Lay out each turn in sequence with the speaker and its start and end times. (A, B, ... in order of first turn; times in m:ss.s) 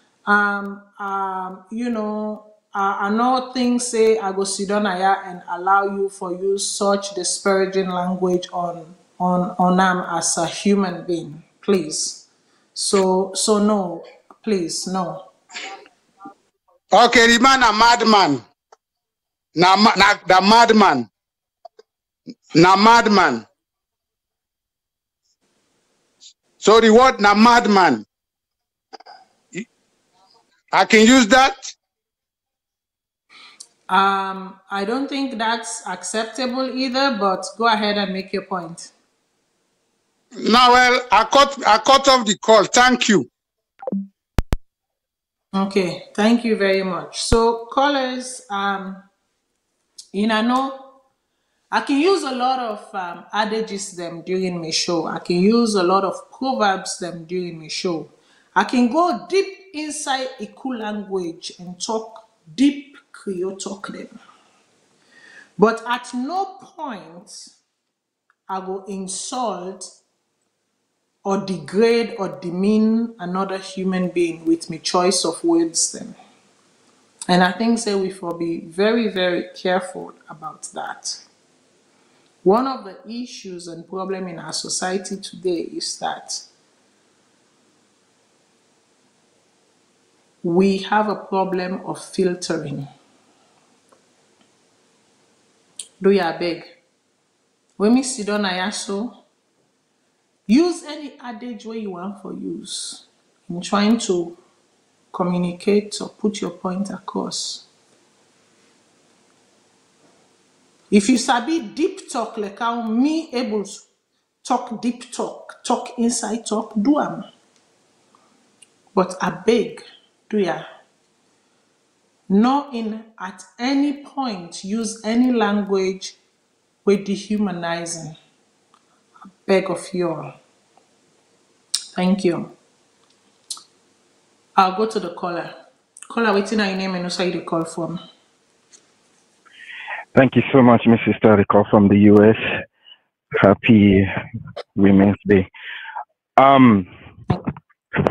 0:00.3-0:12.2 A
0:12.8-0:15.2 A
0:16.9-0:18.4 B
0:19.6-0:21.1 B
0:22.5-0:23.4 B
0:26.6-0:28.0 B
0:30.7-0:31.7 B
0:33.9-0:38.9 A
0:40.4-0:43.3 B
0:45.5-0:49.0 A
0:50.1-0:51.0 A
0:51.7-1:04.2 A
1:05.6-1:07.5 A
1:08.5-1:09.9 A
1:11.2-1:16.2 A
1:17.3-1:21.2 A
1:22.4-1:26.4 A
1:30.4-1:32.9 A
1:36.0-1:36.7 A
1:37.8-1:39.2 A
1:40.5-1:44.4 A
1:45.1-1:47.6 A
1:50.9-1:53.8 A
1:54.4-1:57.3 A
1:58.9-2:00.6 A
2:02.3-2:06.2 A
2:06.8-2:08.2 A
2:09.4-2:10.3 A
2:11.9-2:12.5 A
2:14.6-2:15.5 A
2:16.1-2:18.0 A
2:20.1-2:22.4 C
2:23.4-2:24.1 C
2:24.8-2:25.5 C
2:26.4-2:26.9 C